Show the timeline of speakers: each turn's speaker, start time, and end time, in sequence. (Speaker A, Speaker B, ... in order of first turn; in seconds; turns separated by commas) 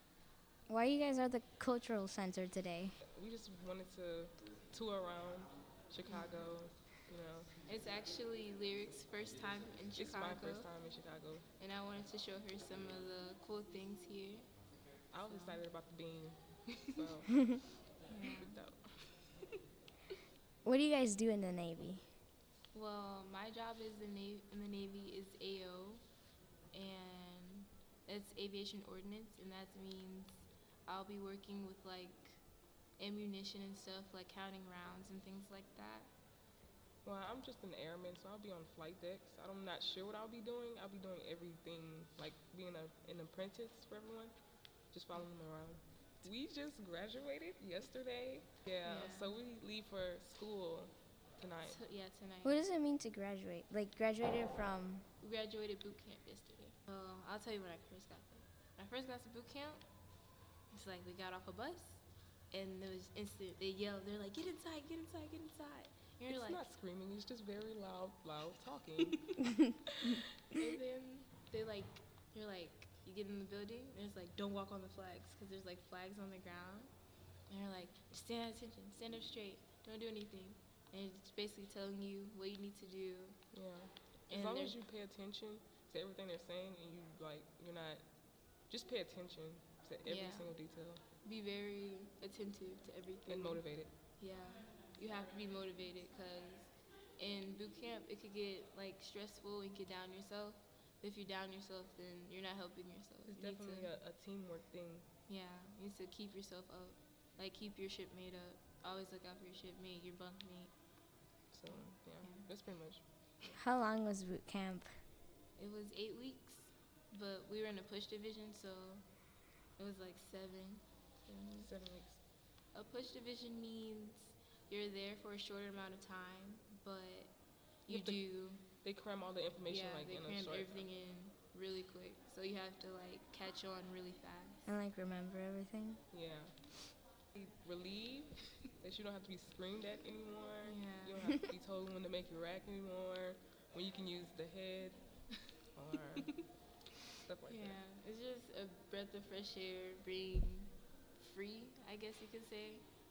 Speaker A: 0.7-3.0, Speaker B: 3.1-7.5, Speaker C: 7.7-10.7, Speaker B: 10.0-11.4, Speaker C: 11.6-14.5, Speaker B: 15.1-17.4, Speaker C: 15.2-15.6, Speaker C: 18.1-18.6, Speaker B: 18.2-19.0, Speaker A: 20.6-22.0, Speaker C: 22.7-26.0, Speaker C: 26.7-32.4, Speaker C: 33.0-36.1, Speaker B: 37.0-44.3, Speaker B: 44.9-51.8, Speaker C: 48.9-49.3, Speaker C: 51.6-52.6, Speaker A: 52.4-55.0, Speaker C: 55.2-59.9, Speaker C: 60.7-66.7, Speaker B: 66.3-69.3, Speaker B: 69.9-70.2, Speaker C: 70.5-76.9, Speaker C: 77.5-83.4, Speaker B: 83.5-88.0, Speaker C: 84.3-84.8, Speaker B: 88.7-91.0, Speaker C: 90.0-90.5, Speaker C: 91.2-93.6, Speaker B: 93.3-93.9, Speaker C: 94.2-103.9, Speaker B: 103.3-105.1, Speaker C: 105.3-110.7, Speaker B: 111.5-113.6, Speaker C: 111.7-112.5, Speaker A: 113.5-114.9, Speaker C: 115.6-119.0, Speaker C: 119.8-121.7, Speaker B: 121.6-122.2, Speaker C: 122.7-128.7, Speaker B: 127.9-130.9, Speaker C: 129.7-134.6, Speaker A: 134.7-136.0, Speaker B: 136.1-136.6, Speaker B: 137.3-145.0, Speaker C: 140.6-141.2, Speaker B: 145.8-146.5, Speaker B: 147.2-147.8, Speaker C: 147.5-152.9